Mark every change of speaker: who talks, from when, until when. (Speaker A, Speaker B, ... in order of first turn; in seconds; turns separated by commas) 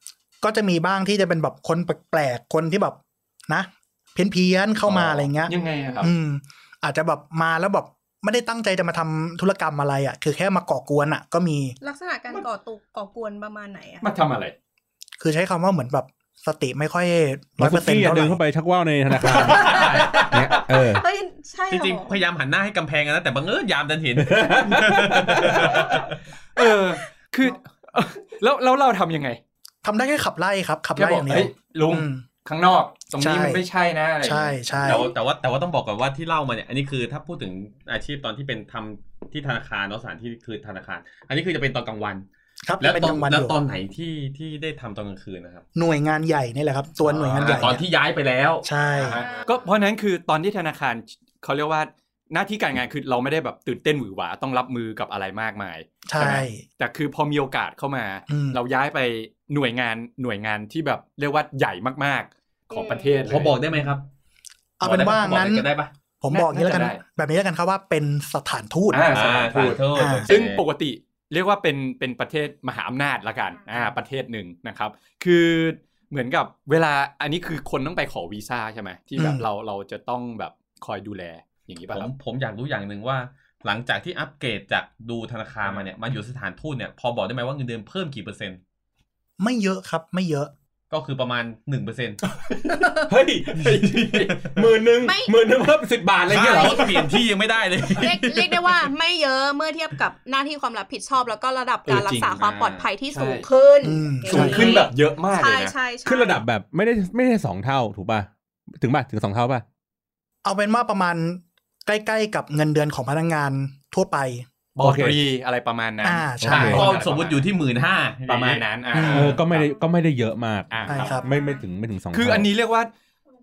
Speaker A: 0.4-11.8, Speaker B: 4.8-6.1, Speaker C: 5.6-6.0, Speaker C: 11.8-14.1, Speaker B: 14.0-14.5, Speaker A: 15.2-18.4, Speaker D: 17.6-21.0, Speaker C: 19.2-22.2, Speaker B: 19.4-20.3, Speaker E: 21.7-26.1, Speaker D: 24.2-25.7, Speaker C: 25.6-25.9, Speaker B: 26.6-29.4, Speaker C: 26.6-27.0, Speaker A: 29.8-32.2, Speaker B: 30.9-34.8, Speaker A: 33.2-33.6, Speaker A: 34.2-35.1, Speaker E: 34.8-42.2, Speaker A: 42.6-43.5, Speaker E: 42.8-45.6, Speaker A: 45.7-47.8, Speaker E: 47.0-48.7, Speaker B: 47.1-47.7, Speaker A: 48.6-49.2, Speaker B: 49.0-63.9, Speaker C: 49.2-49.6, Speaker A: 56.0-56.6, Speaker A: 58.3-58.6, Speaker C: 62.7-63.2, Speaker E: 63.2-64.0, Speaker A: 64.8-65.7, Speaker E: 64.8-65.9, Speaker A: 66.2-69.1, Speaker B: 66.3-67.0, Speaker B: 68.9-82.1, Speaker E: 69.1-70.6, Speaker A: 69.9-70.3, Speaker A: 79.2-79.5, Speaker E: 81.9-88.6, Speaker B: 85.6-85.9, Speaker A: 89.4-90.5, Speaker E: 90.9-92.2, Speaker D: 93.0-97.1, Speaker B: 93.5-94.7, Speaker C: 95.0-95.4, Speaker E: 96.3-98.9, Speaker C: 96.3-97.0, Speaker C: 97.9-106.4, Speaker B: 101.8-102.4, Speaker E: 102.4-102.9, Speaker B: 103.1-103.5, Speaker A: 103.8-104.8, Speaker B: 104.2-105.7, Speaker D: 106.0-109.6, Speaker A: 110.4-114.4, Speaker B: 114.8-117.5, Speaker D: 114.8-115.2, Speaker A: 116.0-116.9, Speaker D: 116.4-116.8, Speaker E: 116.5-118.7, Speaker B: 118.3-119.7, Speaker A: 118.9-119.3, Speaker D: 119.1-122.5, Speaker B: 120.7-121.2, Speaker A: 120.9-121.2, Speaker C: 120.9-121.6, Speaker B: 122.1-122.9